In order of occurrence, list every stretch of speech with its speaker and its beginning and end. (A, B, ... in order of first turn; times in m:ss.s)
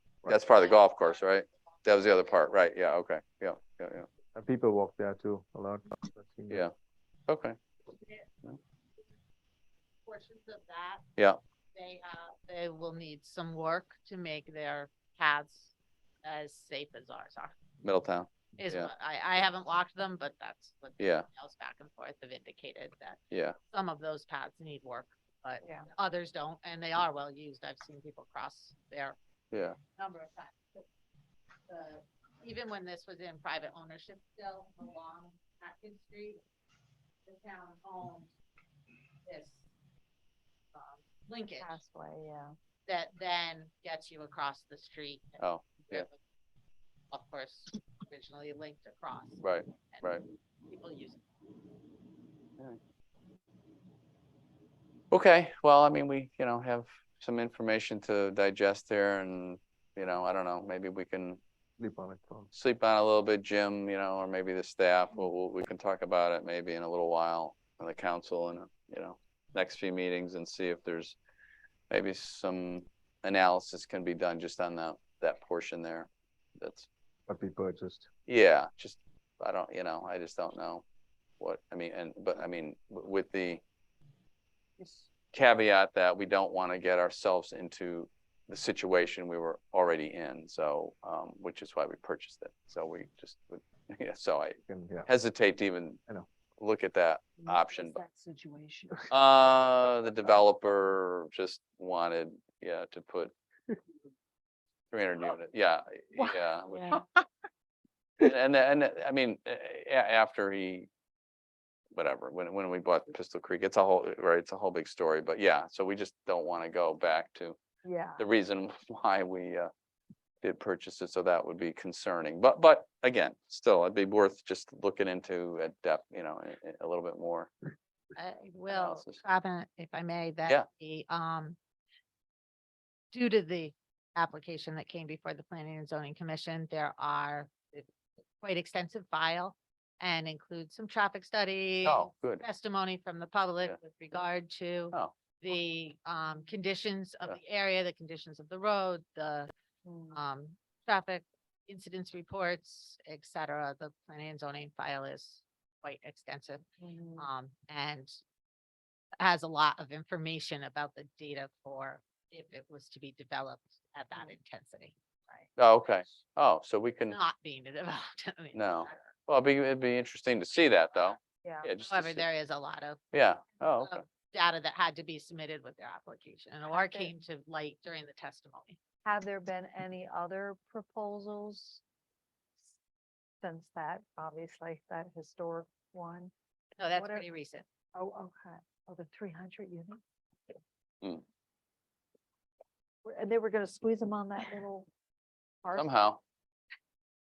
0:00.3-0:04.1 A
0:00.4-0:02.4 B
0:04.3-0:06.7 C
0:07.3-0:07.6 A
0:08.0-0:08.3 B
0:10.1-0:11.0 B
0:11.8-0:17.6 B
0:17.8-0:18.9 A
0:18.6-0:29.2 B
0:21.0-0:21.3 A
0:25.6-0:25.9 D
0:29.5-0:29.8 A
0:30.0-0:30.8 B
0:31.7-0:36.4 B
0:37.3-0:38.3 B
0:39.2-0:39.7 B
0:40.7-0:41.8 B
0:41.5-0:42.6 D
0:42.9-0:46.2 B
0:45.4-0:46.1 A
0:47.1-0:49.4 B
0:49.4-0:50.2 A
0:50.7-0:51.2 B
0:55.1-1:01.4 A
1:01.8-1:02.5 C
1:02.5-1:11.2 A
1:11.9-1:16.9 A
1:17.3-1:18.1 C
1:18.3-1:20.8 A
1:21.4-1:23.6 A
1:25.1-1:36.0 A
1:34.7-1:35.1 C
1:36.6-1:38.0 A
1:37.4-1:39.1 D
1:39.1-1:43.3 A
1:44.9-1:47.0 A
1:46.2-1:47.0 D
1:48.2-1:50.9 A
1:51.9-1:57.6 A
1:57.8-1:58.2 D
1:58.2-1:59.7 A
2:00.4-2:07.5 A
2:08.2-2:11.6 B
2:08.7-2:09.2 A
2:13.1-2:17.9 B
2:18.4-2:29.5 B
2:21.8-2:22.4 A
2:29.8-2:30.2 D
2:30.1-2:36.6 B
2:36.8-2:37.3 D
2:37.2-2:38.2 B
2:39.2-2:45.0 B
2:45.6-2:47.2 A
2:47.1-2:49.0 B
2:48.5-2:52.2 A
2:51.8-2:53.0 B
2:53.1-2:54.0 A
2:53.8-2:58.8 B
2:56.7-2:57.1 D
2:59.0-3:01.8 D
3:03.4-3:06.3 D
3:06.8-3:07.6 B
3:06.9-3:07.2 D
3:08.0-3:10.0 D
3:13.0-3:14.9 D
3:15.6-3:16.0 D
3:15.8-3:16.2 A